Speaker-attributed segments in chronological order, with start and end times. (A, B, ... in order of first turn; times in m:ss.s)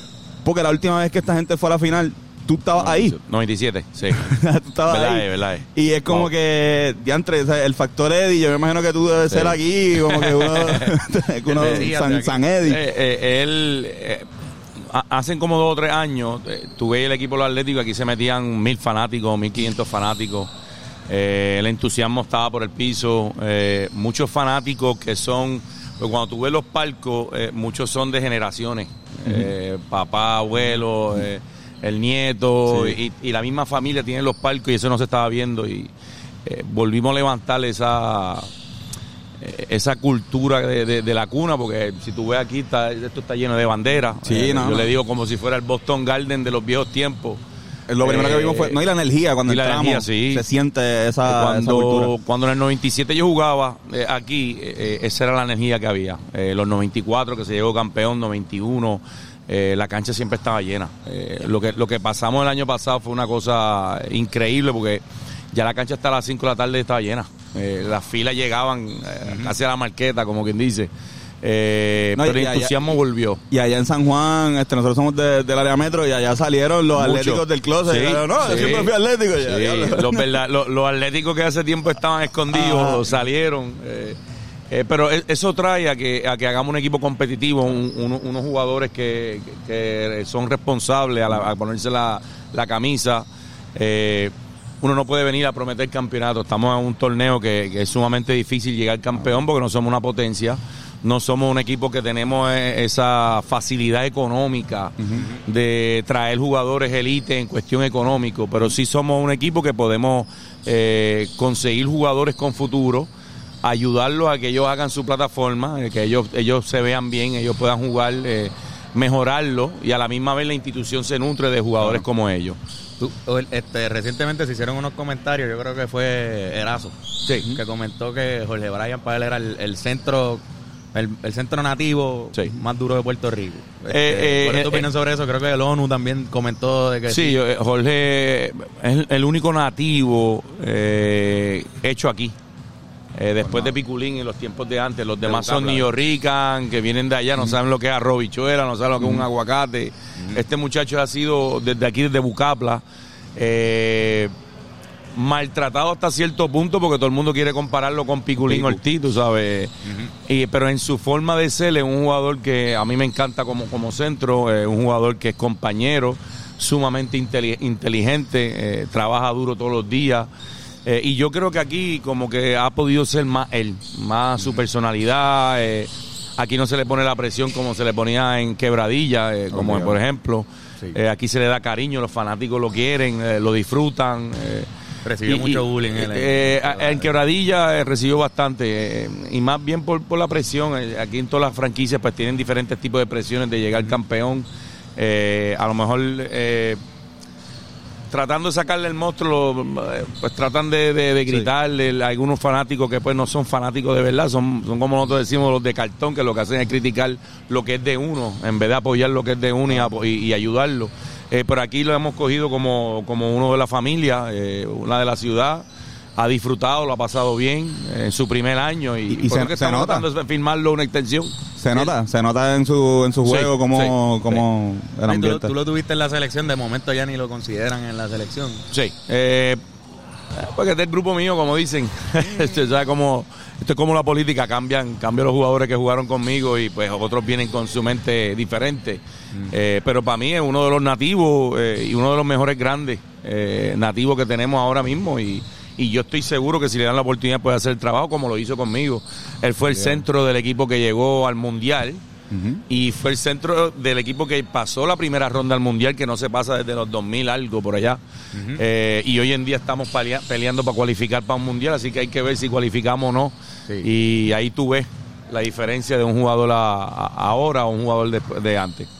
0:00.4-0:03.2 A
0:02.8-0:04.3 B
0:04.1-0:12.8 A
0:04.9-0:06.3 B
0:09.3-0:11.0 B
0:11.4-0:12.4 C
0:11.6-0:11.9 B
0:12.6-0:20.5 B
0:21.1-0:35.9 B
0:29.2-0:29.5 A
0:32.7-0:33.0 A
0:36.4-0:38.5 B
0:39.4-0:47.4 B
0:44.2-0:44.9 A
0:47.9-0:52.1 A
0:48.0-0:48.8 B
0:49.5-0:50.4 B
0:51.2-1:10.9 B
1:09.2-1:09.5 C
1:11.4-1:13.4 B
1:12.2-1:12.9 A
1:13.5-1:20.4 A
1:16.9-1:24.2 B
1:22.5-1:23.0 A
1:24.7-1:53.1 B
1:53.6-2:02.6 B
2:03.0-2:10.4 C
2:10.9-2:17.3 C
2:13.9-2:14.9 B
2:17.1-2:22.3 B
2:23.1-2:32.8 B
2:23.4-2:23.7 A
2:25.2-2:25.9 C
2:29.0-2:29.2 A
2:33.4-2:34.3 B
2:35.1-2:39.7 B
2:38.4-2:38.8 A
2:39.8-2:40.1 C
2:40.2-2:50.3 B
2:50.8-3:04.7 B
2:59.5-3:00.0 A
3:05.0-3:07.0 C
3:05.2-3:16.8 B
3:18.1-3:35.6 B
3:36.2-3:41.9 B
3:39.1-3:40.0 A
3:41.6-3:45.5 A
3:43.2-3:44.4 B
3:45.0-3:48.6 C
3:48.7-3:49.6 B
3:50.3-4:12.0 B
4:09.7-4:10.0 A
4:12.3-4:12.6 A
4:12.7-4:18.0 B
4:18.3-4:18.6 C
4:18.6-4:28.9 B